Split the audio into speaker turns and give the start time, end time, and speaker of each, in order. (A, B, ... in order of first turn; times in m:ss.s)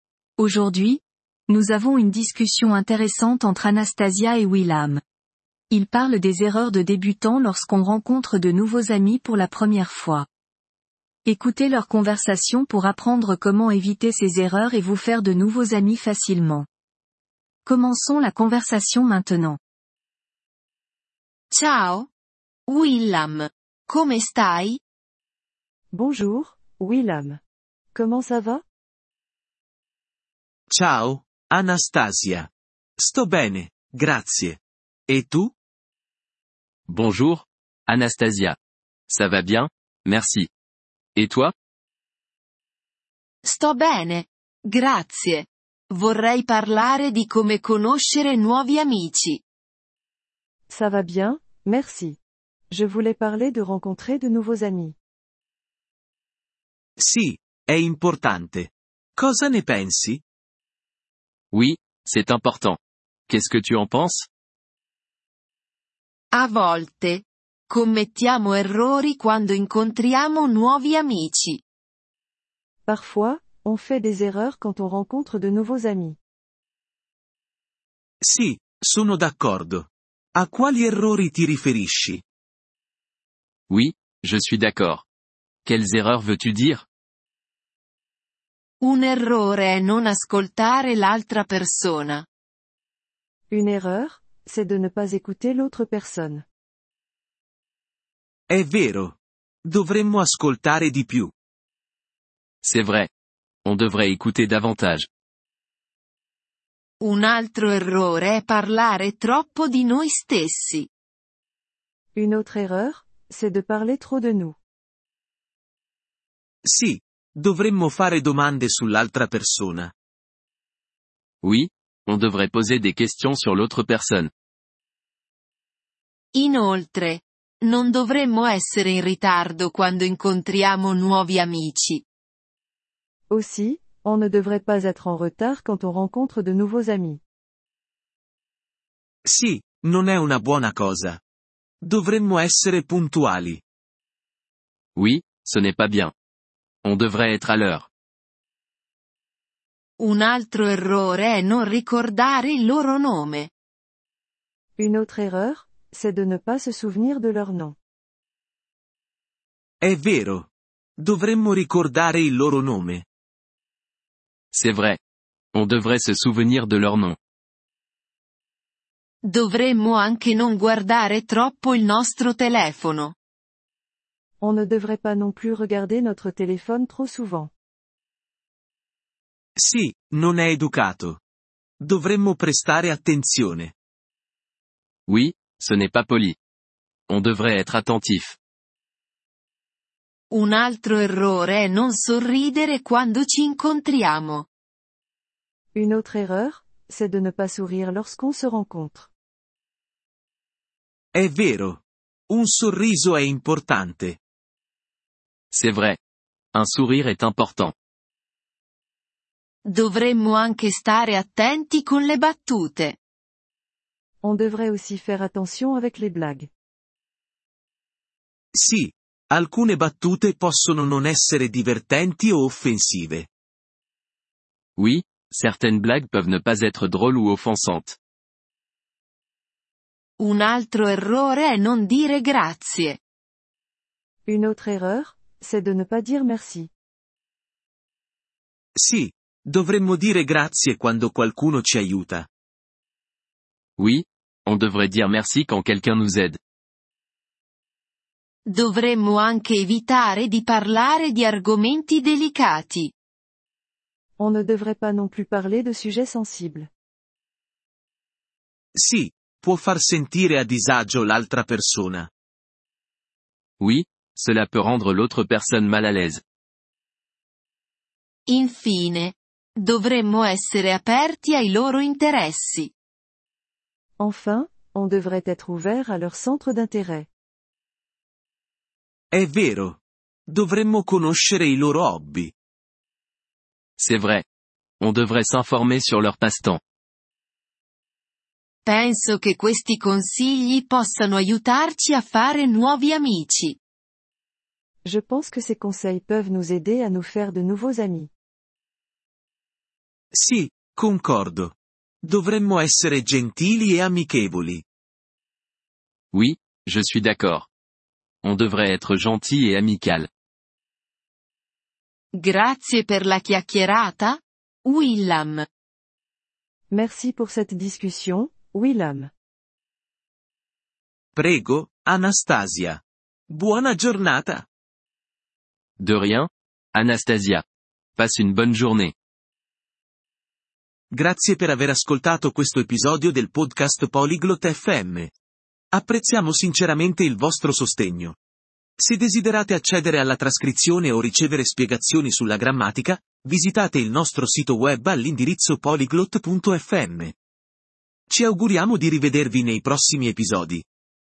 0:00.4-0:05.0 A
0:05.7-0:10.2 A
0:11.2-0:16.7 A
0:17.6-0:19.6 A
0:21.5-0:22.1 B
0:22.7-0:24.8 B
0:25.9-0:27.4 C
0:27.9-0:28.6 C
0:30.7-0:35.5 D
0:36.9-0:38.6 E
0:39.1-0:40.5 E
0:41.2-0:41.5 E
0:43.4-0:49.4 B
0:50.7-0:52.2 C
0:52.7-0:55.0 C
0:57.0-1:00.2 D
1:01.5-1:04.3 E
1:06.3-1:11.6 B
1:12.8-1:16.2 C
1:18.2-1:22.2 D
1:23.7-1:25.0 E
1:25.6-1:26.8 E
1:28.8-1:32.2 B
1:33.5-1:36.4 C
1:38.5-1:41.3 D
1:42.6-1:43.1 E
1:43.6-1:45.1 E
1:47.0-1:50.9 B
1:52.1-1:54.6 C
1:56.6-1:59.9 D
2:01.4-2:04.3 E
2:06.3-2:12.0 B
2:13.3-2:17.2 C
2:19.2-2:21.2 D
2:21.8-2:23.6 D
2:25.0-2:26.1 E
2:26.8-2:27.9 E
2:30.0-2:33.5 B
2:34.8-2:37.8 C
2:39.8-2:43.0 D
2:44.5-2:45.0 E
2:45.5-2:47.2 E
2:49.2-2:53.1 B
2:54.4-2:57.5 C
2:59.6-3:01.2 D
3:01.8-3:03.7 D
3:05.1-3:06.4 E
3:07.1-3:08.4 E
3:10.3-3:14.5 B
3:15.7-3:19.1 C
3:21.1-3:24.2 D
3:25.5-3:26.0 E
3:26.5-3:27.7 E
3:29.6-3:33.0 B
3:34.2-3:36.5 C
3:38.5-3:43.3 D
3:44.8-3:48.0 E
3:50.2-3:53.0 B
3:54.2-3:56.7 C
3:58.8-4:02.3 D
4:03.8-4:06.4 E
4:08.4-4:12.9 B
4:14.2-4:16.7 C
4:18.7-4:22.1 D
4:23.6-4:26.2 E
4:28.3-4:32.7 B
4:34.0-4:37.1 C
4:39.1-4:42.3 D
4:43.8-4:44.2 E
4:44.8-4:46.6 E
4:48.6-4:53.6 B
4:54.8-4:58.1 C
5:00.1-5:04.6 D
5:06.1-5:07.5 E
5:08.2-5:10.1 E
5:12.1-5:15.4 B
5:16.7-5:19.1 C
5:21.1-5:24.5 D
5:25.8-5:27.4 E
5:28.0-5:28.9 E
5:30.9-5:35.1 D
5:35.7-5:38.2 D
5:38.8-5:47.1 D
5:48.1-5:50.6 D